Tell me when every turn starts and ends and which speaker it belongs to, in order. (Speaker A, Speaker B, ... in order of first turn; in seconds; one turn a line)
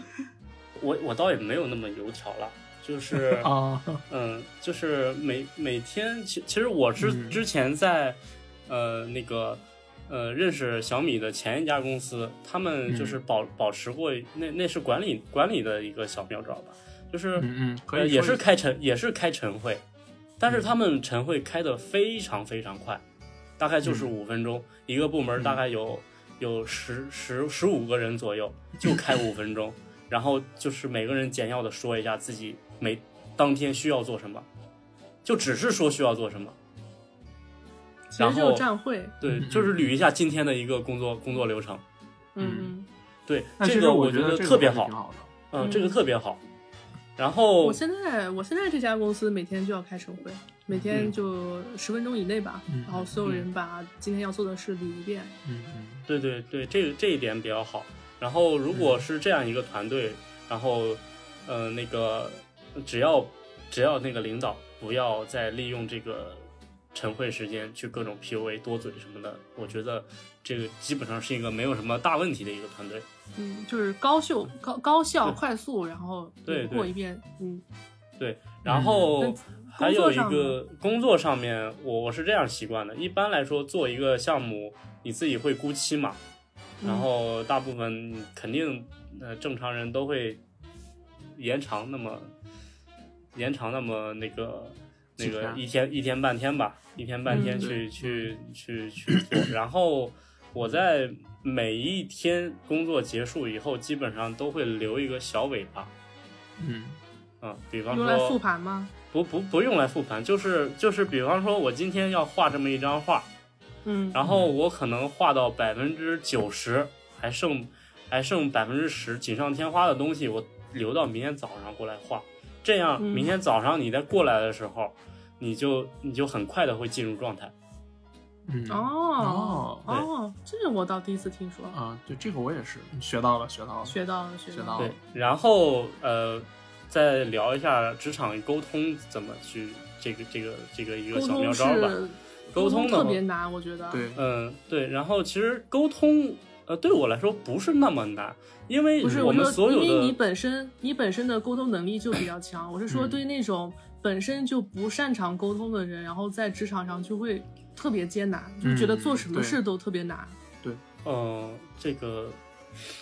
Speaker A: 0.8-3.5
Speaker B: 3.1-4.0
Speaker A: 4.1-19.8
Speaker B: 7.0-7.4
Speaker B: 12.9-13.2
Speaker B: 17.4-18.4
Speaker A: 20.4-23.0
Speaker A: 23.6-34.5
Speaker B: 23.8-24.1
Speaker A: 35.2-36.6
Speaker C: 38.1-39.1
Speaker A: 38.2-38.7
Speaker A: 39.2-41.8
Speaker B: 39.2-39.9
Speaker C: 42.4-42.9
Speaker B: 42.4-42.7
Speaker A: 43.3-44.9
Speaker B: 43.6-45.3
Speaker A: 45.5-46.4
Speaker C: 45.6-46.0
Speaker A: 47.2-47.8
Speaker C: 47.6-55.3
Speaker B: 50.7-51.1
Speaker B: 52.7-53.2
Speaker B: 55.5-56.0
Speaker A: 56.1-73.1
Speaker B: 58.7-59.0
Speaker C: 73.4-77.6
Speaker A: 76.5-76.9
Speaker A: 78.2-86.2
Speaker B: 78.7-79.1
Speaker C: 79.2-80.6
Speaker C: 86.8-87.1
Speaker A: 86.8-90.4
Speaker A: 91.4-92.3
Speaker A: 93.3-105.9
Speaker B: 95.2-95.6
Speaker B: 97.3-98.3
Speaker C: 97.3-97.7
Speaker B: 99.1-99.5
Speaker B: 106.6-107.0
Speaker A: 107.4-108.4
Speaker C: 107.9-108.9
Speaker A: 109.1-113.3
Speaker C: 113.8-114.2
Speaker A: 114.1-127.5
Speaker B: 114.2-114.5
Speaker C: 123.0-123.3
Speaker B: 128.5-129.9
Speaker C: 128.7-131.8
Speaker B: 131.7-134.0
Speaker C: 133.9-134.9
Speaker B: 134.5-134.9
Speaker A: 134.8-142.0
Speaker C: 141.1-144.0
Speaker A: 142.5-143.2
Speaker B: 143.9-144.2
Speaker A: 144.1-150.2
Speaker B: 149.0-149.4
Speaker C: 149.0-160.3
Speaker B: 152.9-153.2
Speaker B: 158.6-159.6
Speaker A: 161.0-162.4